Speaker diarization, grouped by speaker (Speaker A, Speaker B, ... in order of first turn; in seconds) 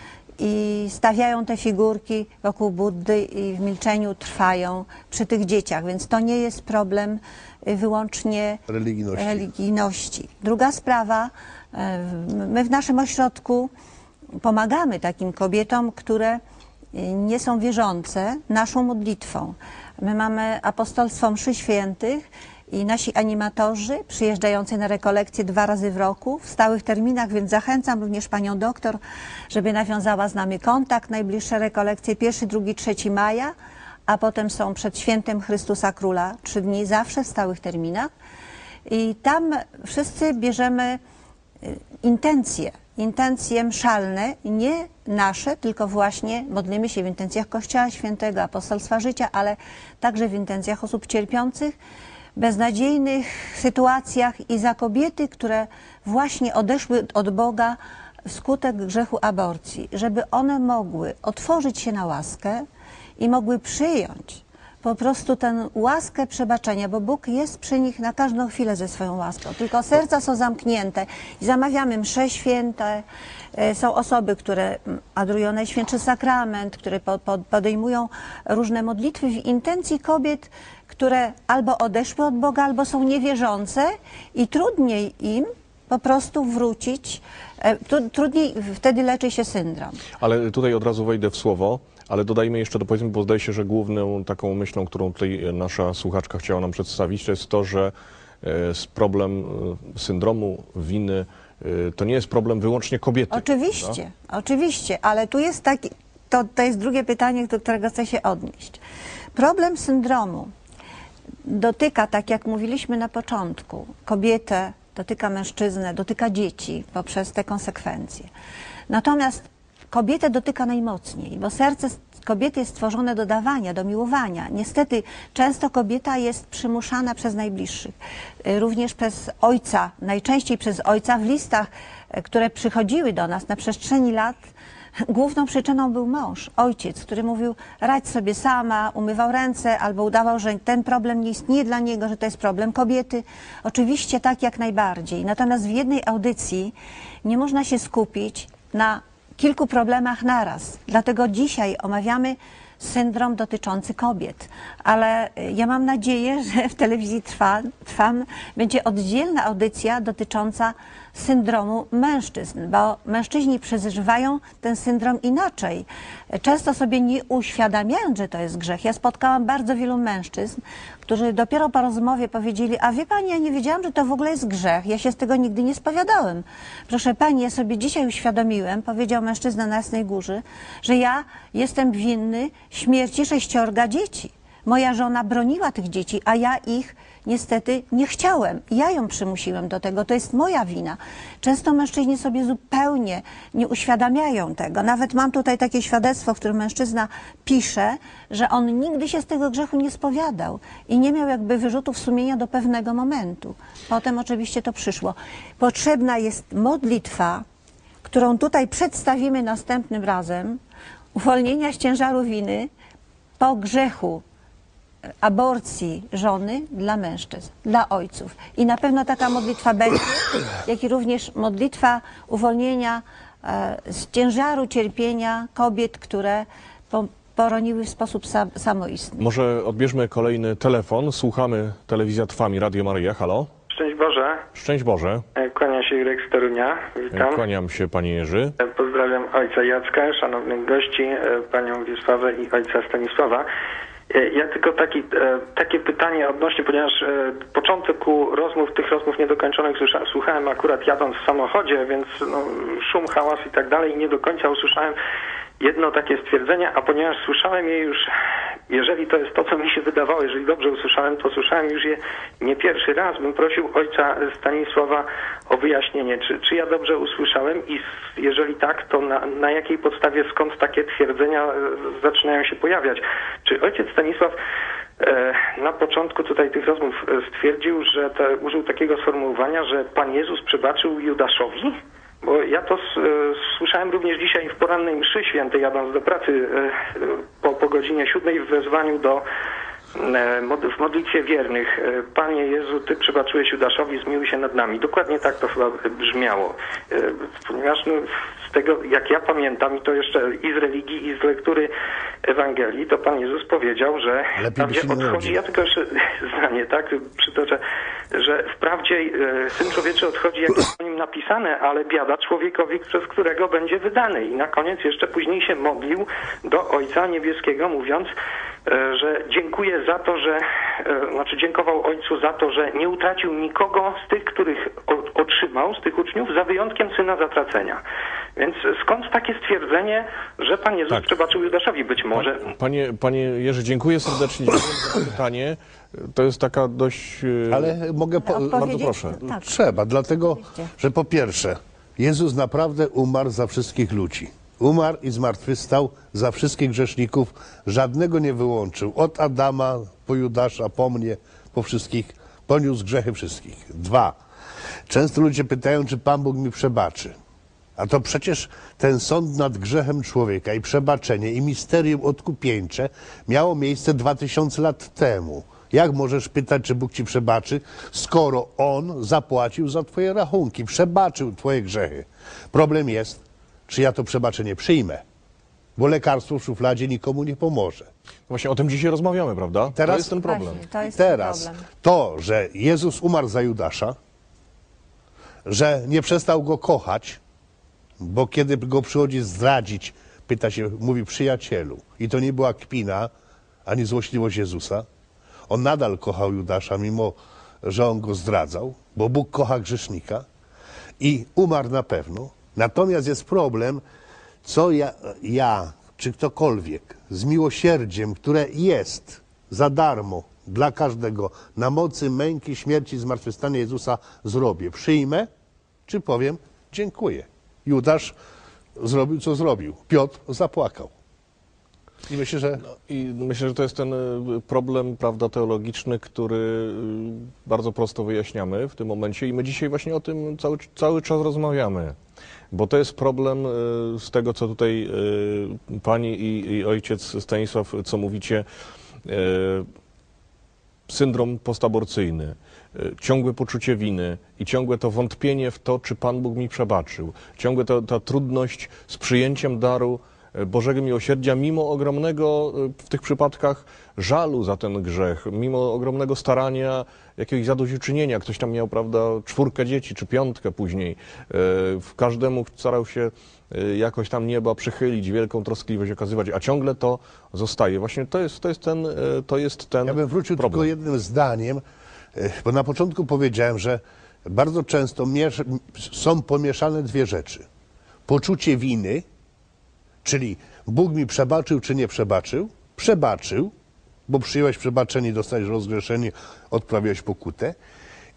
Speaker A: 0.4-8.6, 9.2-13.7, 14.4-16.4, 16.9-33.5, 34.1-38.1, 38.9-41.0, 41.6-51.8, 52.4-62.6, 63.2-90.0, 103.3-108.8, 109.3-110.5, 111.4-118.3, 118.9-134.4, 135.1-146.7, 147.2-207.4, 208.0-210.6, 211.1-212.7, 213.4-214.2, 215.2-229.2, 338.2-339.6, 380.2-381.7
Speaker B: 8.7-9.4, 304.4-305.4, 337.5-354.1, 354.9-357.1, 357.8-375.0, 375.8-377.9, 379.7-380.1, 380.8-383.9, 385.4-387.2, 388.0-393.1, 393.6-394.9, 395.5-400.2, 401.0-403.8, 404.4-415.3, 415.9-418.1, 418.8-420.9, 422.1-422.6, 469.9-471.6, 472.1-477.4, 478.1-479.0, 480.0-483.5, 484.1-487.6
Speaker C: 90.2-104.0, 229.2-233.5, 234.5-235.2, 237.1-238.5, 332.1-337.7, 338.5-339.2, 378.3-380.6, 422.6-431.9, 432.5-438.4, 439.0-439.6, 440.9-470.7
Speaker D: 233.7-234.4, 235.3-237.4, 238.6-243.4, 244.1-254.9, 255.6-258.1, 258.7-274.3, 275.0-289.2, 289.9-301.7, 302.2-307.6, 308.1-318.1, 318.6-327.8, 328.4-332.4